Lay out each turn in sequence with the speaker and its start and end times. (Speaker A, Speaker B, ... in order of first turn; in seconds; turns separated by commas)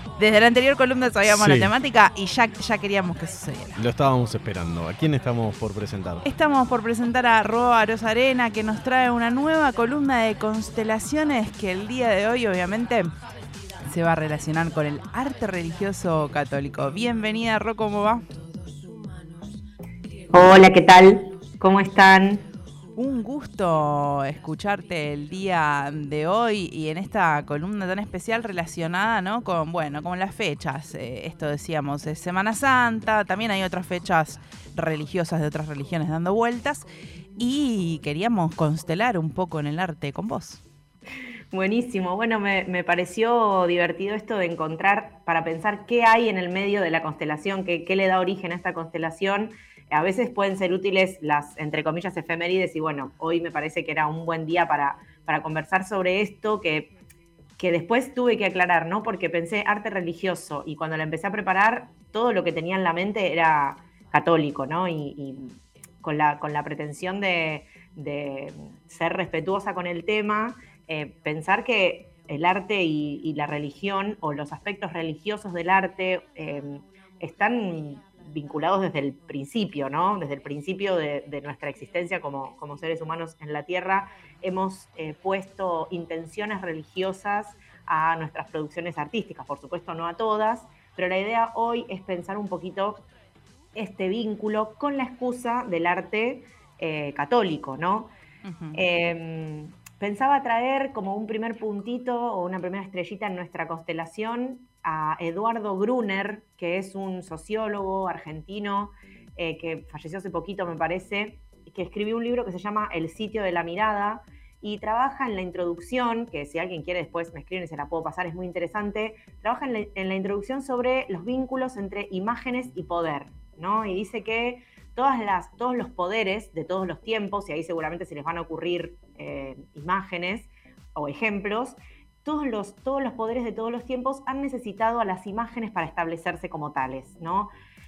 Speaker A: 0.2-3.8, Speaker B: 1.3-1.7, Speaker B: 3.7-6.2, Speaker A: 6.2-13.1, Speaker A: 13.8-18.2, Speaker C: 20.3-22.4, Speaker A: 22.9-36.9, Speaker A: 37.4-40.6, Speaker C: 41.5-56.9, Speaker C: 57.6-93.0, Speaker C: 93.7-98.1, Speaker A: 98.4-98.8, Speaker C: 98.7-137.5